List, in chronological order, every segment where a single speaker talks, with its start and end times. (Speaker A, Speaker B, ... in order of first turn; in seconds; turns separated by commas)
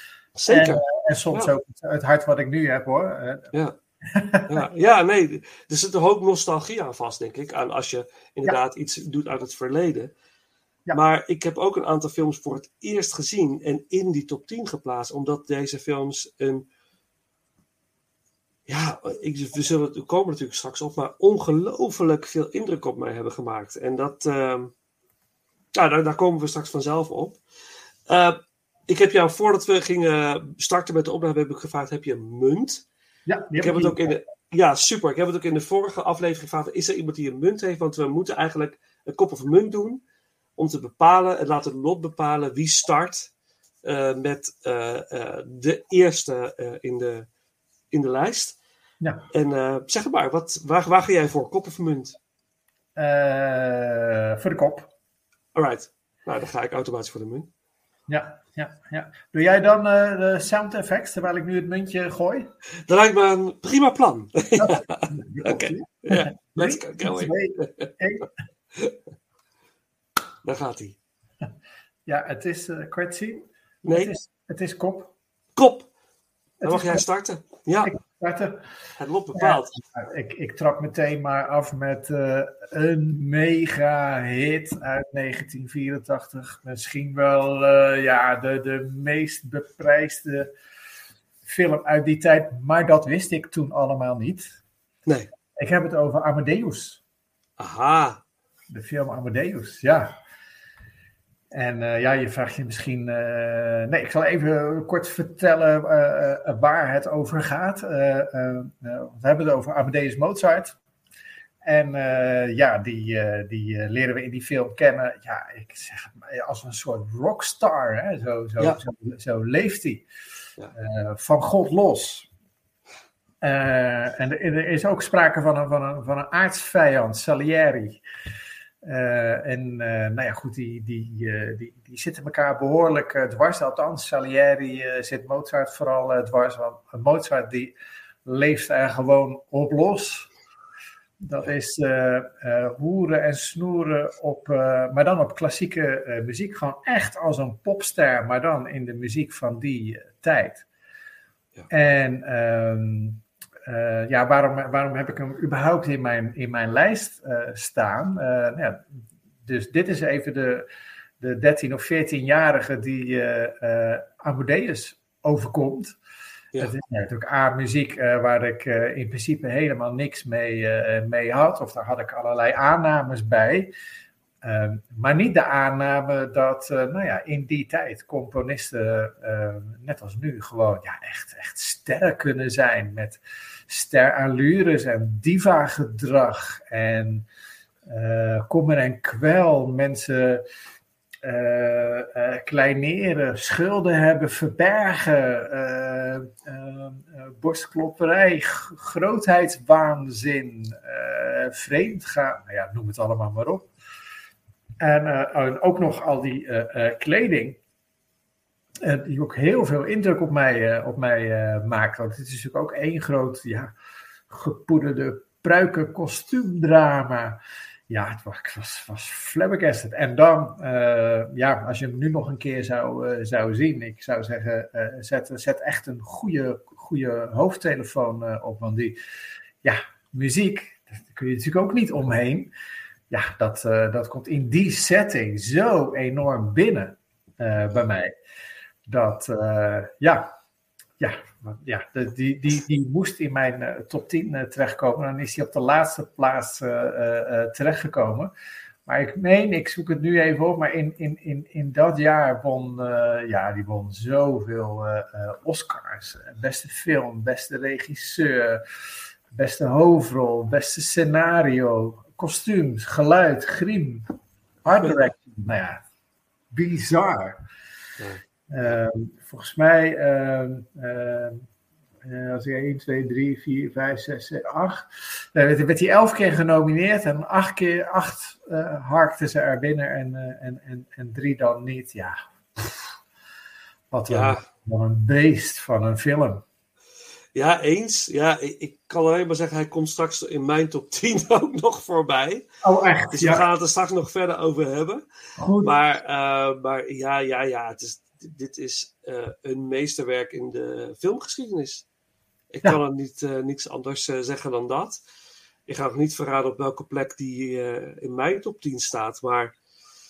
Speaker A: 0.3-1.5, Speaker B: 0.5-3.5, Speaker B: 4.1-4.6, Speaker A: 4.5-10.1, Speaker A: 10.9-16.6, Speaker A: 18.7-24.7, Speaker A: 25.7-27.4, Speaker A: 28.1-32.8, Speaker B: 33.3-34.1, Speaker A: 33.6-40.0, Speaker A: 40.6-43.3, Speaker A: 43.8-47.3, Speaker A: 47.9-48.6, Speaker B: 49.0-49.3, Speaker A: 49.3-52.2, Speaker B: 53.0-54.9, Speaker A: 55.5-57.5, Speaker B: 58.1-62.5, Speaker A: 62.9-67.9, Speaker B: 64.6-68.2, Speaker A: 70.4-71.0, Speaker B: 72.0-75.1, Speaker A: 73.8-74.1, Speaker A: 75.5-75.9, Speaker B: 76.6-77.0, Speaker A: 76.6-77.9, Speaker B: 77.8-78.7, Speaker A: 79.0-79.8, Speaker B: 79.3-90.5, Speaker B: 91.5-94.5, Speaker B: 95.5-97.0, Speaker A: 97.6-98.2, Speaker B: 98.7-100.2, Speaker B: 101.5-110.8, Speaker B: 111.6-120.0, Speaker B: 120.7-122.3, Speaker B: 123.4-128.0, Speaker B: 128.8-137.7, Speaker B: 138.2-140.3, Speaker B: 141.2-150.6, Speaker B: 151.7-158.9, Speaker B: 159.4-160.7, Speaker B: 161.2-166.0, Speaker B: 166.6-173.7, Speaker B: 174.4-187.2, Speaker B: 187.9-190.4, Speaker B: 191.2-203.7, Speaker B: 204.8-207.6, Speaker B: 208.8-213.7, Speaker B: 214.3-229.0, Speaker B: 229.6-232.5, Speaker B: 233.1-238.2, Speaker B: 238.9-240.3, Speaker B: 241.0-248.3, Speaker B: 248.8-258.6, Speaker B: 259.3-264.1, Speaker B: 264.6-265.8, Speaker B: 266.5-267.4, Speaker A: 268.0-268.7, Speaker B: 268.5-271.4, Speaker B: 272.0-282.9, Speaker B: 283.9-286.4, Speaker A: 284.1-284.4, Speaker A: 287.3-292.5, Speaker B: 292.6-293.4, Speaker A: 293.1-295.0, Speaker B: 295.4-295.8, Speaker A: 295.6-301.8, Speaker A: 302.5-305.0, Speaker A: 305.7-309.5